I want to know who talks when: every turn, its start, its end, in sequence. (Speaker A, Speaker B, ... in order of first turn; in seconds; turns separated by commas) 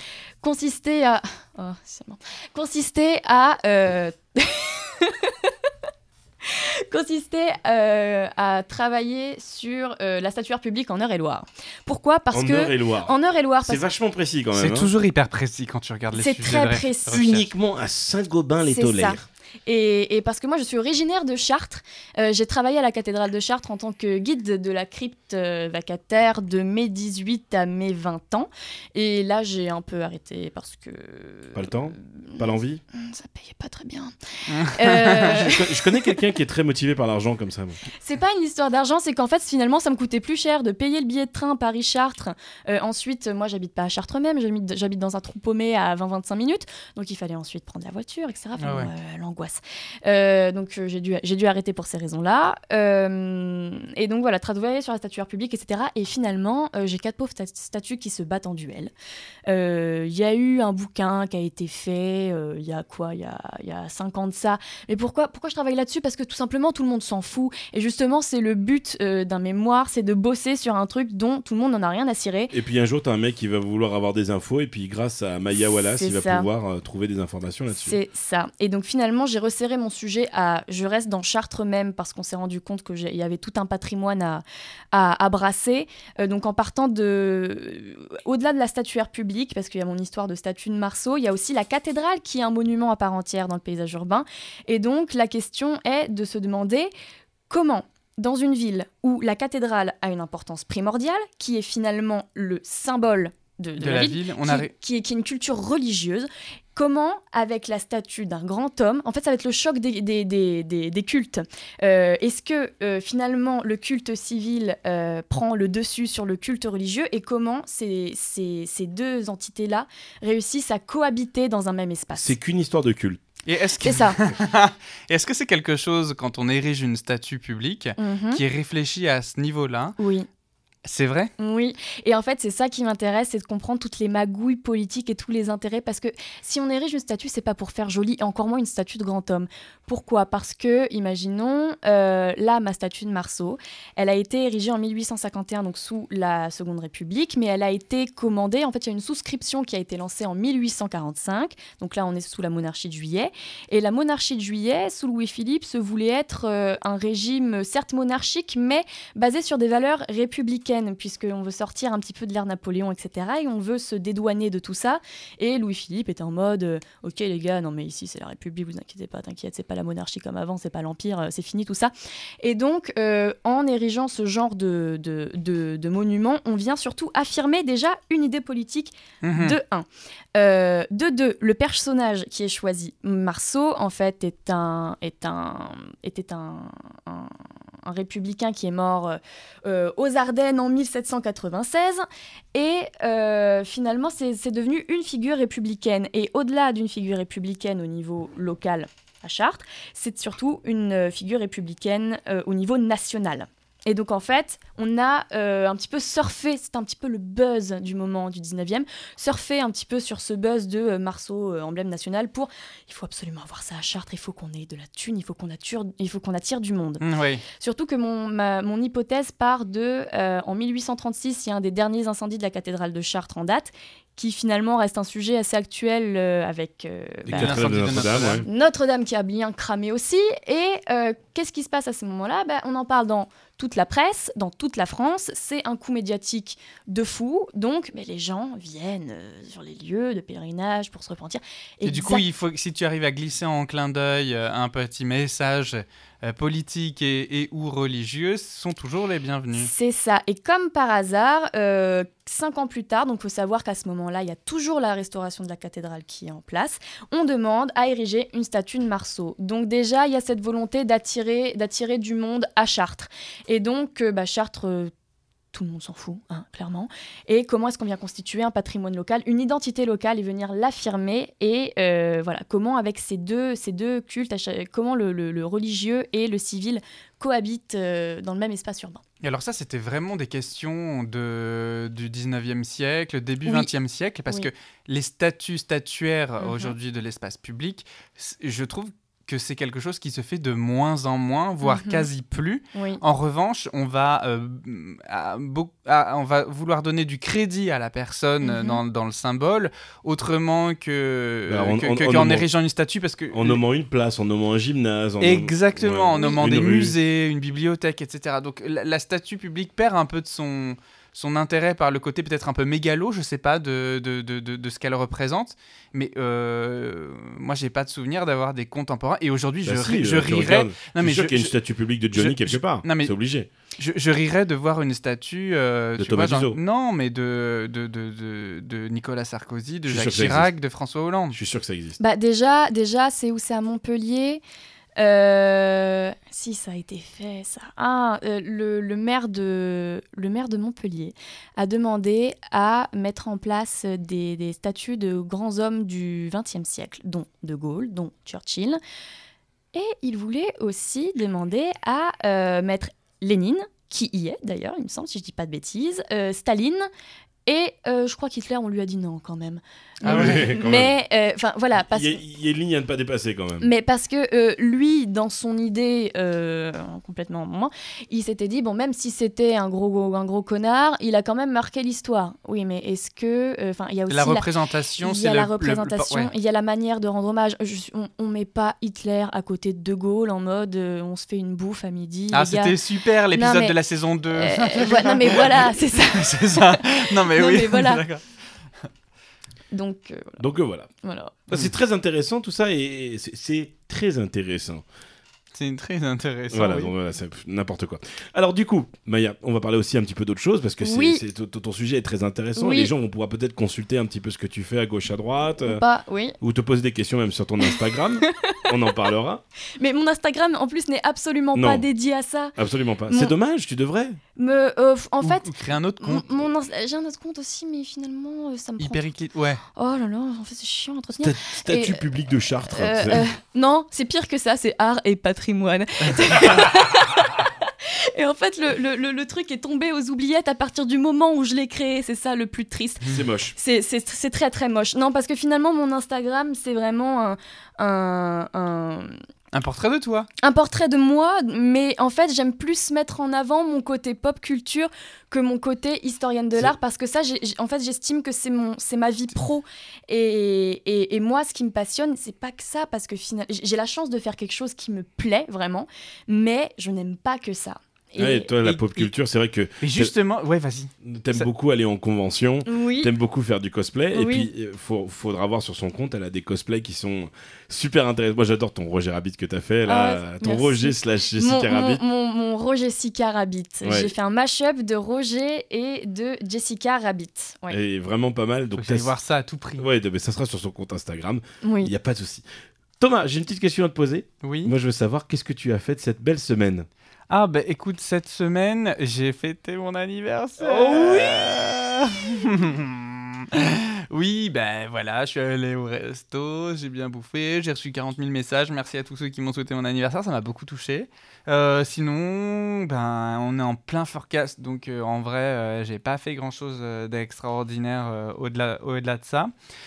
Speaker A: 0.4-5.5, Speaker A: 6.4-13.8, Speaker B: 12.3-13.1, Speaker B: 13.7-14.9, Speaker C: 14.5-17.4, Speaker A: 16.1-17.4, Speaker B: 17.1-19.2, Speaker A: 18.6-36.2, Speaker B: 31.6-32.8, Speaker C: 34.5-35.4, Speaker B: 35.2-37.8, Speaker A: 38.0-58.9, Speaker C: 48.6-48.9, Speaker A: 59.5-72.5, Speaker B: 72.5-78.0, Speaker A: 75.9-76.5, Speaker A: 77.7-96.9, Speaker A: 97.5-122.3, Speaker C: 103.8-104.7, Speaker B: 122.2-123.2, Speaker C: 123.5-130.0, Speaker A: 123.8-124.2, Speaker A: 128.0-128.4, Speaker A: 130.0-130.3, Speaker C: 130.8-131.3, Speaker A: 131.4-217.0, Speaker C: 179.2-179.6, Speaker C: 217.0-217.4, Speaker A: 217.5-227.7, Speaker B: 227.3-228.5, Speaker C: 227.3-228.5, Speaker A: 228.4-242.2, Speaker C: 241.8-249.7, Speaker A: 249.6-264.9, Speaker A: 265.5-279.0, Speaker C: 279.2-303.6, Speaker A: 283.4-283.7, Speaker A: 286.4-286.7, Speaker A: 291.6-292.1, Speaker A: 292.7-293.0, Speaker A: 298.4-298.8, Speaker B: 301.5-302.5, Speaker B: 303.3-306.9, Speaker C: 305.2-321.5, Speaker A: 306.2-306.4, Speaker B: 319.6-323.5, Speaker C: 322.1-323.1, Speaker C: 323.8-331.4, Speaker B: 326.0-326.6, Speaker B: 329.9-330.5, Speaker B: 331.3-332.0, Speaker A: 332.0-334.4, Speaker A: 335.0-348.8, Speaker A: 349.7-356.9, Speaker A: 357.5-362.2, Speaker C: 360.0-360.6, Speaker B: 360.0-361.0, Speaker B: 361.8-363.7, Speaker A: 363.6-374.5, Speaker C: 374.1-376.3, Speaker A: 375.0-382.8, Speaker C: 382.3-388.2, Speaker A: 383.3-383.8, Speaker A: 384.3-388.0, Speaker A: 389.7-390.4, Speaker B: 390.4-390.9, Speaker A: 391.0-391.4, Speaker B: 391.5-394.8, Speaker C: 395.5-396.9, Speaker B: 396.5-405.8, Speaker A: 400.8-401.2, Speaker A: 402.6-402.9, Speaker A: 405.6-406.4, Speaker B: 406.4-409.4, Speaker A: 407.7-408.7, Speaker A: 409.8-412.6, Speaker B: 411.6-411.9, Speaker B: 412.6-414.2, Speaker A: 413.1-413.3, Speaker A: 414.4-419.0, Speaker C: 415.2-416.4, Speaker C: 418.8-419.6, Speaker A: 419.8-422.0, Speaker B: 421.2-423.3, Speaker A: 422.7-439.2, Speaker B: 433.1-433.6, Speaker C: 439.5-440.3, Speaker A: 440.4-458.6, Speaker B: 458.2-460.1, Speaker C: 458.6-459.1, Speaker C: 459.8-461.5, Speaker B: 461.0-472.0, Speaker A: 462.7-463.1, Speaker A: 464.1-464.5, Speaker A: 469.9-477.8, Speaker B: 473.8-474.1, Speaker B: 477.7-479.1, Speaker C: 478.8-479.9, Speaker B: 479.8-482.4, Speaker A: 481.6-481.9, Speaker B: 483.0-486.9, Speaker C: 484.4-484.7, Speaker C: 487.3-509.5, Speaker B: 490.6-491.5